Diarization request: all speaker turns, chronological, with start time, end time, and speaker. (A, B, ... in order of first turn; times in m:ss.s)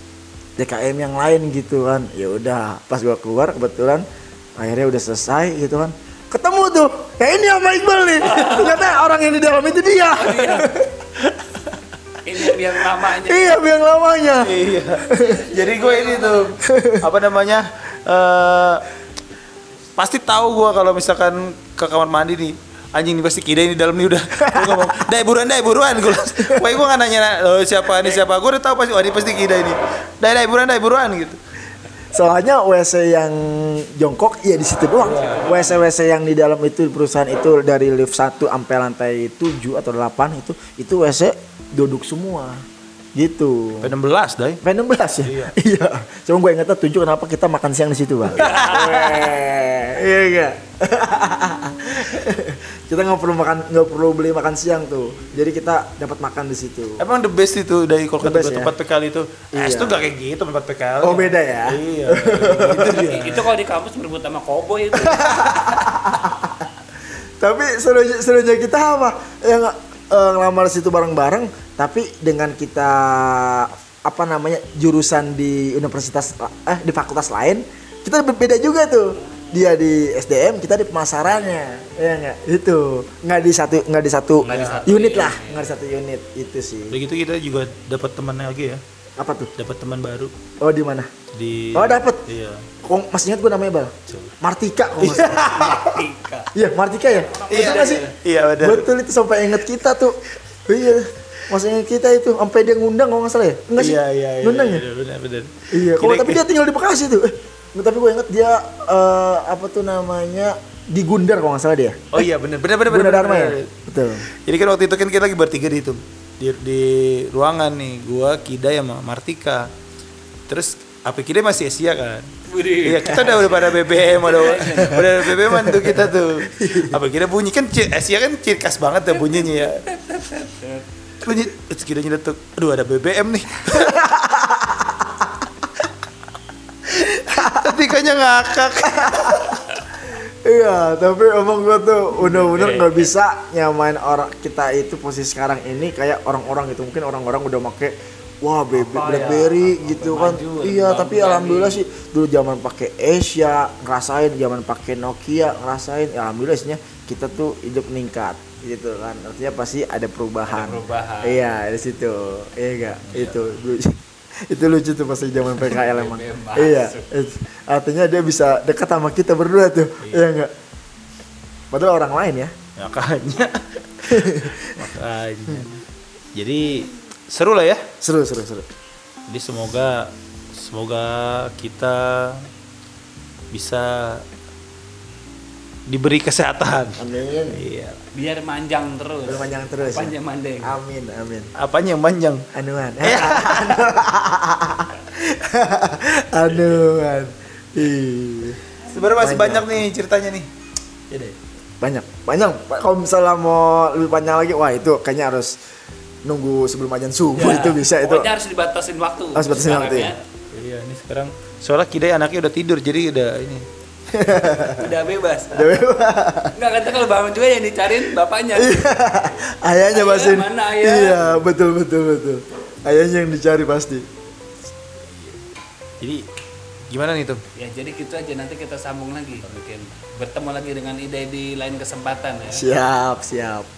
0:00.6-0:04.0 A
0:04.6-0:11.0 A
0:08.2-0:08.8 B
0:10.2-0:10.7 B
0:12.2-0:13.6 B
0:13.1-0:15.4 A
0:14.4-0:18.8 C
0:15.2-0:16.5 B
0:16.6-0:17.1 A
0:20.0-0:31.4 C
0:24.4-0:25.1 A
0:26.1-0:26.7 A
0:32.1-0:42.6 A
0:35.0-0:35.7 C
0:35.0-0:35.7 B
0:43.1-0:43.9 A
0:43.8-0:44.6 C
0:44.6-0:57.0 A
0:45.2-0:45.6 C
0:48.3-0:49.2 C
0:48.3-0:49.3 B
0:57.0-1:03.5 C
0:58.2-0:58.7 A
0:59.5-1:00.0 A
1:01.0-1:03.0 A
1:02.9-1:05.7 B
1:04.9-1:06.5 A
1:07.4-1:27.0 A
1:24.4-1:25.7 B
1:24.5-1:24.9 C
1:26.9-1:28.8 C
1:29.2-1:29.5 A
1:29.6-1:30.3 C
1:30.6-1:31.1 A
1:31.3-1:32.6 C
1:31.7-1:32.2 A
1:32.8-1:35.8 A
1:34.1-1:34.3 C
1:35.0-1:35.8 C
1:35.4-1:36.5 B
1:36.5-1:38.0 A
1:37.2-1:38.1 B
1:37.5-1:38.9 C
1:38.6-1:44.8 A
1:43.8-1:46.4 C
1:45.7-1:52.2 A
1:52.1-1:53.7 C
1:52.9-1:54.2 A
1:54.4-1:59.7 C
2:00.5-2:02.3 C
2:02.5-2:05.0 B
2:02.8-2:09.8 C
2:05.0-2:05.9 A
2:06.6-2:07.0 A
2:09.1-2:10.8 B
2:11.2-2:14.0 C
2:13.7-2:15.3 A
2:16.9-2:19.7 C
2:17.3-2:17.7 A
2:18.9-2:19.4 A
2:20.1-2:50.5 A
2:22.2-2:23.0 C
2:28.7-2:31.8 B
2:40.5-2:41.4 B
2:43.0-2:43.4 C
2:45.6-2:47.0 B
2:51.7-2:52.5 A
2:52.8-2:55.8 C
2:54.1-2:54.7 A
2:56.3-2:57.8 C
2:58.0-2:58.6 A
2:59.3-3:02.5 C
3:03.5-3:04.2 C
3:05.9-3:07.0 C
3:07.0-3:07.6 A
3:07.5-3:08.0 C
3:08.1-3:10.8 B
3:09.2-3:11.5 A
3:11.6-3:12.4 C
3:12.5-3:18.6 A
3:13.0-3:13.9 C
3:18.9-3:20.5 C
3:19.2-3:19.8 A
3:21.1-3:21.3 C
3:21.8-3:25.6 A
3:26.2-3:28.3 A
3:27.4-3:30.2 B
3:29.3-3:30.1 A
3:30.5-3:33.6 C
3:34.1-3:34.9 A
3:34.8-3:35.8 B
3:35.5-3:36.5 A
3:36.5-3:38.8 B
3:38.5-3:44.0 A
3:39.9-3:41.2 B
3:46.9-3:47.4 C
3:47.6-3:52.7 B
3:52.5-3:53.7 A